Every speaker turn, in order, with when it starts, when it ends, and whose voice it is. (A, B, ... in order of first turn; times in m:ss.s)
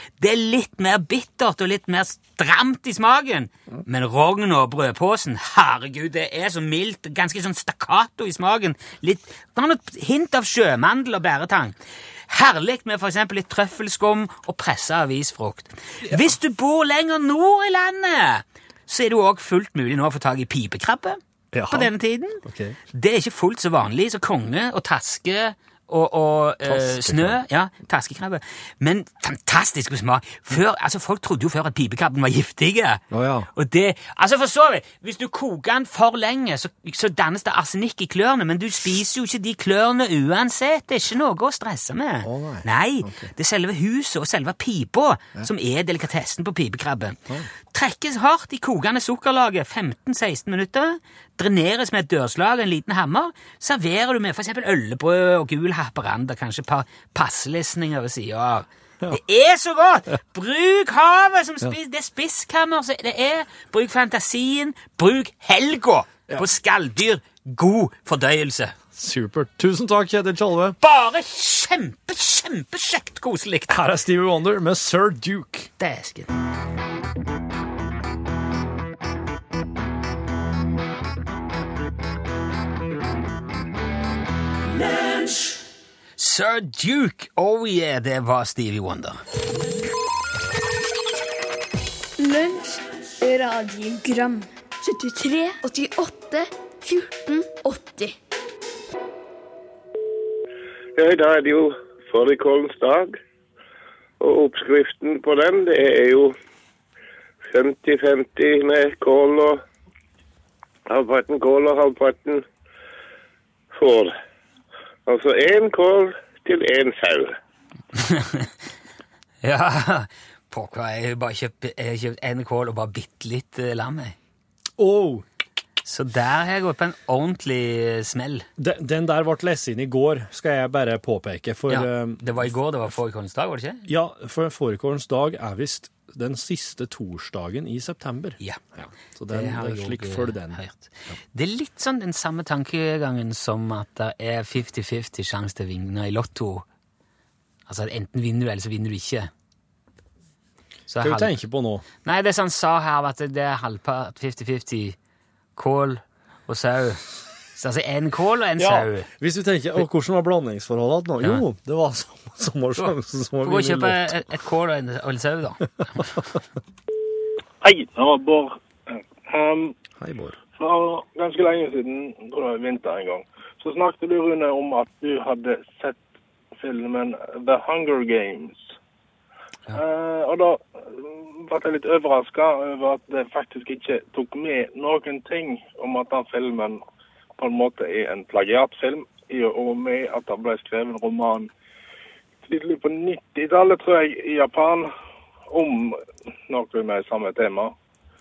0:00.2-0:11.7 A
0:12.3-0:22.4 A
0:21.5-0:22.8 B
0:22.9-0:33.0 A
0:26.6-0:27.4 B
0:33.1-0:33.5 B
0:33.5-1:08.7 A
0:42.2-0:43.3 B
1:08.9-1:10.8 B
1:10.8-1:13.8 A
1:13.7-1:15.7 B
1:15.8-1:16.3 A
1:26.2-1:29.2 A
1:32.2-1:38.1 C
1:41.0-1:43.2 D
1:44.2-1:46.3 D
1:47.4-1:49.6 D
1:50.9-1:52.4 D
1:53.7-1:54.1 D
1:55.1-1:57.4 D
1:57.9-1:58.5 A
1:59.4-2:04.2 A
2:04.8-2:05.2 B
2:05.8-2:08.5 A
2:08.6-2:12.5 B
2:11.7-2:13.9 A
2:13.9-2:21.1 B
2:19.3-2:26.6 A
2:27.7-2:29.3 A
2:30.9-2:31.3 A
2:31.0-2:31.8 B
2:32.0-2:35.0 A
2:35.6-2:37.0 A
2:37.5-2:39.1 A
2:38.6-2:44.1 B
2:42.8-2:46.3 A
2:47.6-2:49.7 E
2:50.0-2:50.4 B
2:50.6-2:56.0 E
2:56.6-2:58.7 E
2:59.7-3:06.8 E
3:07.4-3:11.5 E
3:12.4-3:14.9 E
3:15.5-3:17.7 E